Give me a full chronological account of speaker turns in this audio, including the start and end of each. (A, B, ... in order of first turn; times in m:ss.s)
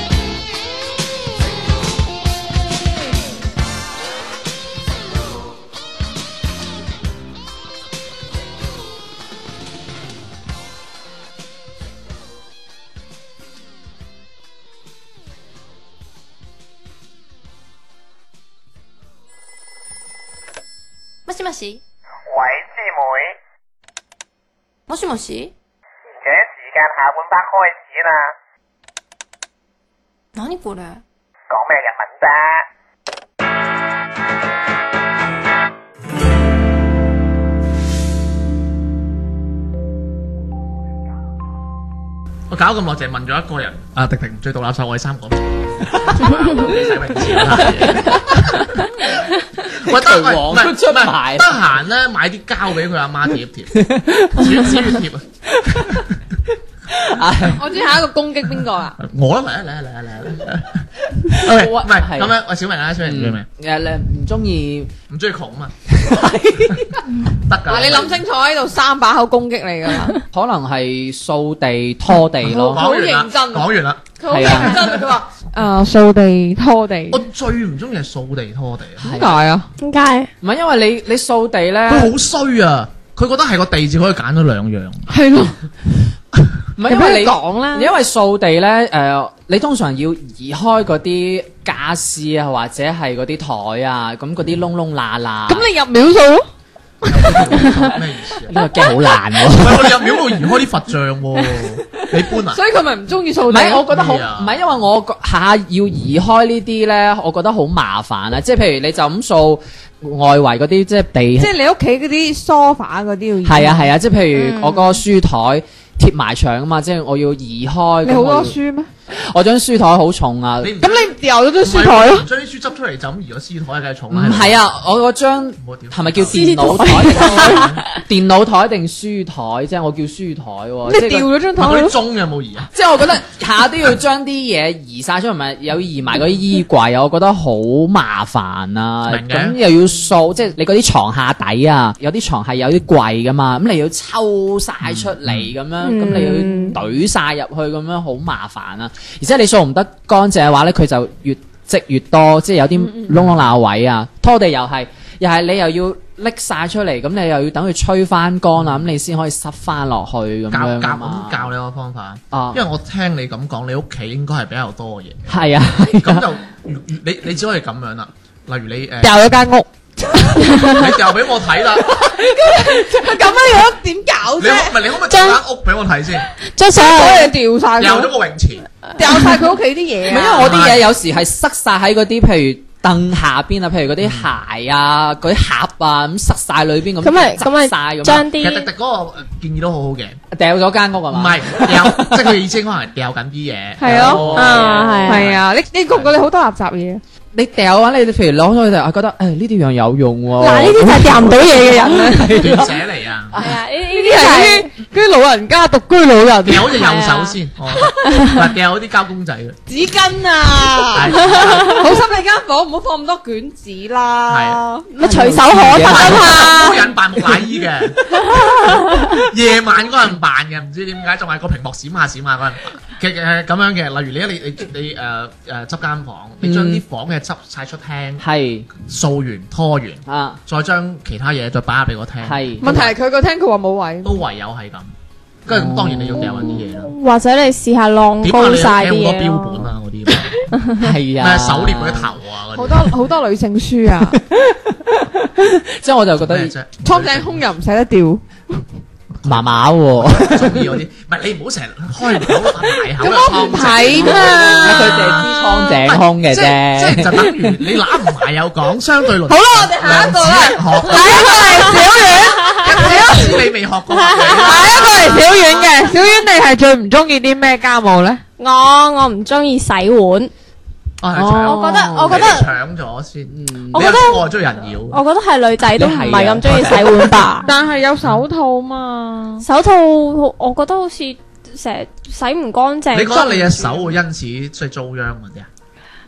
0:21.2-0:21.8 A
0:22.3-0:23.4 B
0:24.9-0:25.5 A
0:26.2-0:28.3 B
0:30.3-0:31.0 A
0:31.5-0:32.6 B
0:42.5-0:56.0 C
0:47.6-0:48.8 D
0:49.7-0:51.6 D
0:53.7-0:54.8 D
0:55.5-0:56.0 D
0:56.9-0:57.6 D
0:57.6-0:59.0 E
0:59.0-1:03.4 C
1:01.2-1:02.3 D
1:03.0-1:04.9 D
1:05.1-1:05.7 C
1:05.9-1:07.0 D
1:07.4-1:08.2 C
1:07.6-1:10.2 E
1:10.3-1:12.8 D
1:12.5-1:17.2 E
1:12.7-1:14.0 C
1:14.3-1:14.8 D
1:14.7-1:15.1 C
1:17.1-1:19.1 C
1:19.0-1:19.4 D
1:19.1-1:19.7 E
1:19.8-1:20.3 F
1:20.4-1:22.1 D
1:21.9-1:25.1 C
1:25.1-1:25.5 E
1:26.8-1:35.7 D
1:26.8-1:27.9 E
1:35.5-1:36.4 E
1:37.0-1:38.6 C
1:38.5-1:40.0 D
1:39.5-1:42.6 C
1:42.5-1:43.9 E
1:43.5-1:51.5 D
1:43.9-1:44.6 C
1:51.4-1:53.9 E
1:53.4-1:58.6 D
1:54.4-1:55.0 F
1:58.0-1:58.9 E
1:59.1-2:00.7 D
2:00.6-2:04.6 C
2:00.8-2:02.3 E
2:04.1-2:11.3 D
2:05.6-2:07.8 C
2:06.3-2:07.8 F
2:10.8-2:12.0 E
2:11.5-2:12.7 C
2:12.7-2:41.5 D
2:19.1-2:19.6 C
2:24.8-2:25.5 C
2:25.8-2:26.8 F
2:32.8-2:33.1 E
2:40.5-2:45.3 C
2:42.3-2:42.6 D
2:45.3-2:46.2 D
2:45.9-2:49.2 C
2:49.0-2:50.8 E
2:50.7-2:52.0 C
2:51.9-2:54.8 E
2:54.4-2:56.3 C
2:55.1-2:55.4 F
2:56.6-2:57.3 F
2:56.8-2:58.1 E
2:57.8-2:58.7 C
2:59.0-3:00.7 E
2:59.0-2:59.3 F
3:00.0-3:08.3 D
3:00.4-3:00.9 C
3:04.0-3:04.3 C
3:07.0-3:08.7 F
3:08.3-3:10.2 C
3:10.3-3:12.4 D
3:11.1-3:15.4 C
3:13.8-3:17.0 E
3:13.8-3:15.3 D
3:14.3-3:15.3 F
3:17.3-3:22.8 D
3:20.4-3:22.3 F
3:22.3-3:23.3 C
3:23.3-3:24.7 F
3:23.8-3:27.1 E
3:26.4-3:29.6 C
3:26.8-3:27.4 F
3:29.7-3:34.9 E
3:30.9-3:31.9 C
3:31.4-3:31.7 F
3:34.3-3:34.6 C
3:34.9-3:36.8 F
3:35.0-3:36.4 D
3:35.9-3:36.8 E
3:35.9-3:38.0 C
3:38.7-3:48.2 C
3:46.4-3:46.8 D
3:48.2-3:48.7 D
3:48.8-3:52.9 C
3:50.0-3:50.4 D
3:52.2-3:52.7 D
3:52.6-3:54.2 E
3:54.0-3:54.9 C
3:55.4-3:56.9 C
3:55.5-3:56.6 D
3:56.4-3:59.7 F
3:58.2-4:00.5 C
4:00.8-4:02.1 D
4:01.2-4:03.0 C
4:02.5-4:04.2 E
4:04.1-4:06.5 D
4:06.2-4:07.4 C
4:06.8-4:08.6 E
4:09.2-4:15.3 C
4:09.2-4:10.8 D
4:13.0-4:15.8 E
4:14.0-4:17.5 D
4:16.3-4:21.7 C
4:19.2-4:23.5 E
4:20.8-4:21.9 F
4:22.4-4:22.7 F
4:22.5-4:25.5 C
4:23.9-4:24.6 F
4:24.2-4:28.2 E
4:28.4-4:30.3 F
4:31.0-4:35.0 C
4:31.2-4:32.3 D
4:31.4-4:32.5 F
4:33.3-4:33.9 D
4:33.7-4:34.3 F
4:34.9-4:37.5 F
4:35.8-4:37.1 D
4:37.4-4:39.4 E
4:39.4-4:44.0 F
4:42.9-4:45.5 C